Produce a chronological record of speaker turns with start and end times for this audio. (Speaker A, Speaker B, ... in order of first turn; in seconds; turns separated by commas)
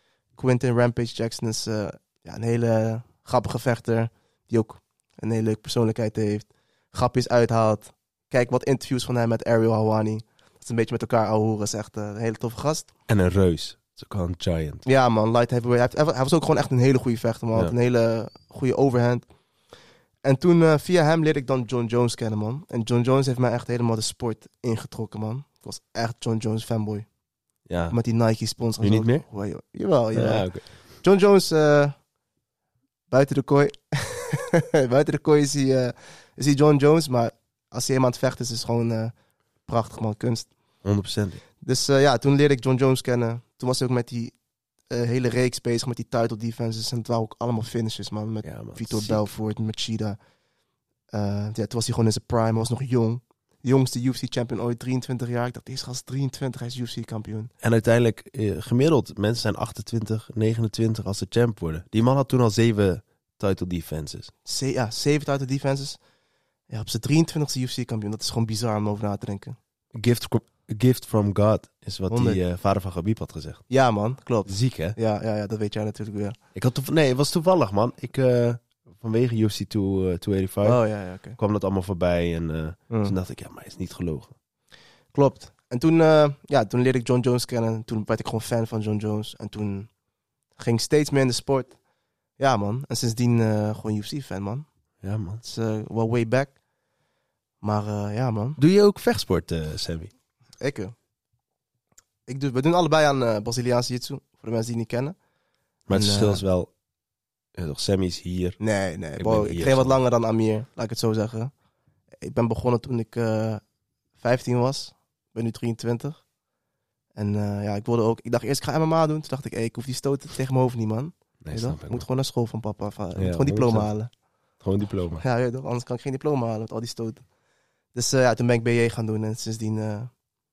Speaker A: 0.4-12.9, Speaker B: 13.1-14.8, Speaker A: 14.8-19.3, Speaker A: 20.2-27.1, Speaker B: 27.7-28.0, Speaker A: 27.9-30.5, Speaker B: 28.8-29.2, Speaker B: 30.1-30.6, Speaker A: 31.0-31.9, Speaker A: 33.1-39.1, Speaker A: 39.7-40.5, Speaker B: 40.8-41.4, Speaker A: 41.6-44.4, Speaker A: 44.9-50.2, Speaker B: 48.4-49.3, Speaker A: 51.1-57.5, Speaker B: 57.6-64.3, Speaker A: 64.5-66.0, Speaker A: 66.7-69.6, Speaker B: 69.9-73.6, Speaker A: 72.1-72.4, Speaker A: 73.7-76.4, Speaker B: 74.5-75.0, Speaker B: 76.5-80.8, Speaker A: 80.6-81.4, Speaker B: 81.4-84.3, Speaker A: 82.9-83.2, Speaker A: 85.1-89.9, Speaker A: 90.6-91.8, Speaker A: 92.4-94.7, Speaker B: 95.0-95.4, Speaker A: 95.4-96.5, Speaker A: 97.6-98.6, Speaker B: 98.6-100.1, Speaker A: 100.6-100.9, Speaker A: 102.3-105.2, Speaker B: 105.9-106.7, Speaker A: 105.9-106.4, Speaker B: 107.6-108.6, Speaker A: 108.6-111.5, Speaker B: 109.2-110.0, Speaker A: 112.2-113.6, Speaker A: 114.2-116.2, Speaker A: 117.2-124.1, Speaker B: 121.4-122.0, Speaker B: 123.2-123.9, Speaker B: 124.6-125.2, Speaker A: 125.2-127.2, Speaker A: 128.0-130.1